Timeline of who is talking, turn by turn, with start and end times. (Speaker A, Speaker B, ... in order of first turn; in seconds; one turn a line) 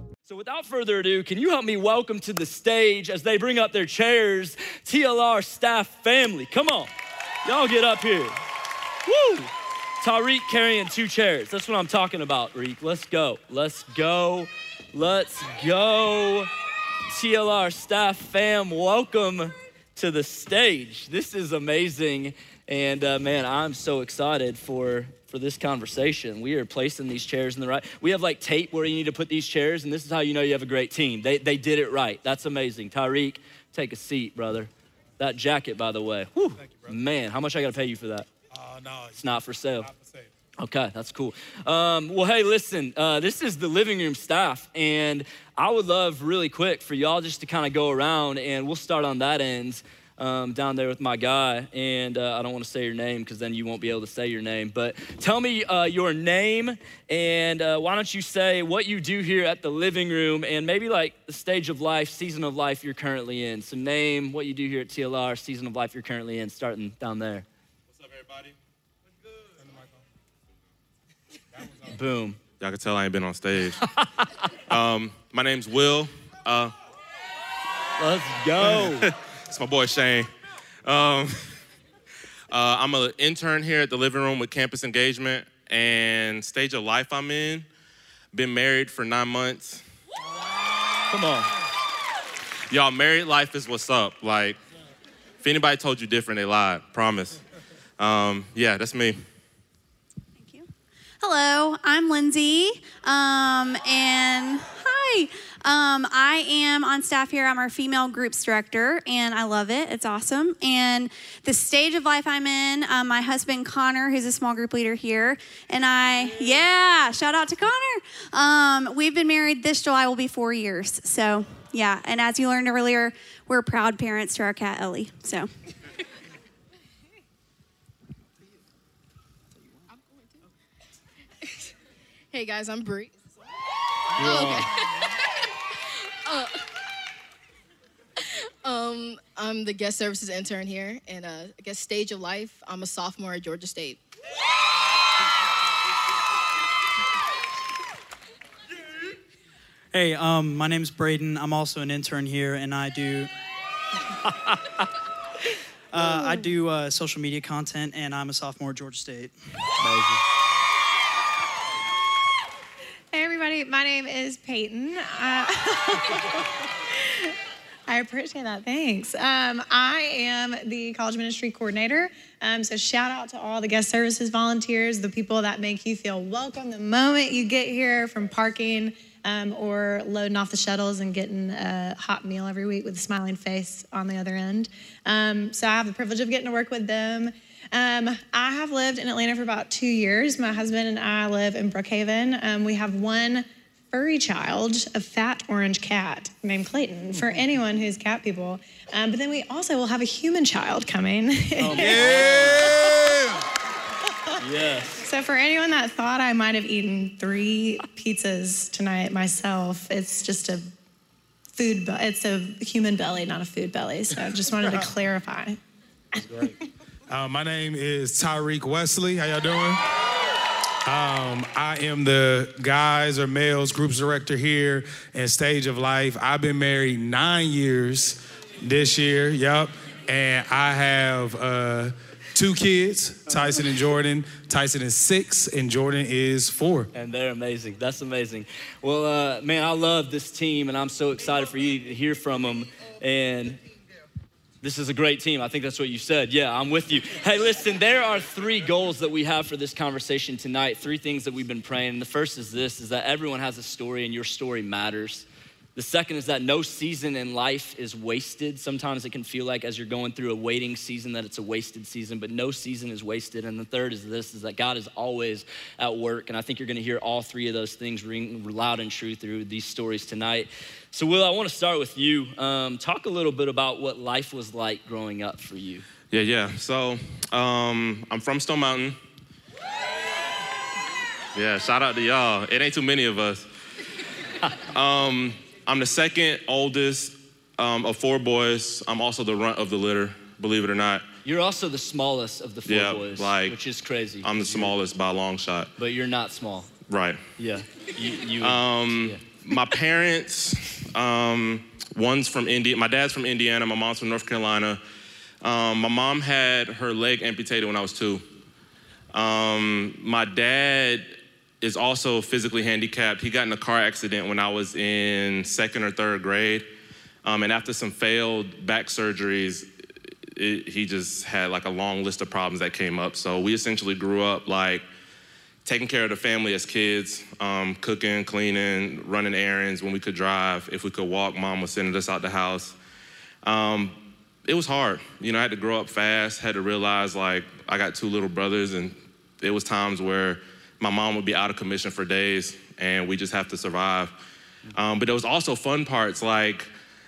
Speaker A: 0.3-6.9
Speaker A: 7.5-8.3
Speaker A: 9.0-16.5
Speaker A: 17.1-38.3
Speaker B: 38.5-39.2
Speaker A: 39.2-39.9
Speaker B: 39.8-40.2
Speaker A: 40.6-67.5
Speaker C: 68.1-68.5
Speaker A: 71.8-72.4
Speaker C: 72.6-73.8
Speaker A: 73.8-74.3
Speaker C: 74.7-76.7
Speaker A: 78.0-79.1
Speaker C: 78.7-80.3
Speaker C: 80.8-81.3
Speaker C: 82.5-87.7
Speaker C: 88.3-89.8
Speaker A: 91.1-91.5
Speaker C: 92.7-94.6
Speaker C: 95.4-97.4
Speaker C: 98.0-99.2
Speaker D: 100.4-100.7
Speaker D: 101.2-125.5
Speaker E: 129.9-130.2
Speaker E: 132.3-133.1
Speaker E: 134.2-135.2
Speaker A: 134.2-134.6
Speaker E: 136.2-136.6
Speaker E: 138.2-144.0
Speaker F: 149.9-153.3
Speaker A: 154.3-154.6
Speaker F: 155.9-159.3
Speaker A: 159.8-160.2
Speaker G: 163.1-167.3
Speaker G: 167.9-202.5
Speaker A: 201.6-202.9
Speaker B: 201.8-203.4
Speaker A: 204.4-205.1
Speaker G: 205.0-210.7
Speaker G: 211.5-215.6
Speaker A: 216.2-216.5
Speaker G: 216.2-216.5
Speaker B: 217.1-219.8
Speaker B: 220.8-236.9
Speaker A: 236.9-243.6
Speaker A: 244.6-275.9
Speaker C: 276.1-279.0
Speaker C: 281.4-283.4
Speaker C: 284.7-291.1
Speaker A: 291.2-294.8
Speaker C: 292.7-293.6
Speaker C: 294.2-295.7
Speaker A: 295.8-296.7
Speaker C: 296.9-297.2
Speaker A: 297.4-299.2
Speaker C: 298.4-304.8
Speaker C: 305.4-308.2
Speaker C: 309.1-316.7
Speaker C: 317.2-319.7
Speaker C: 320.3-324.9
Speaker C: 325.6-332.8
Speaker C: 333.4-344.1
Speaker C: 344.8-346.7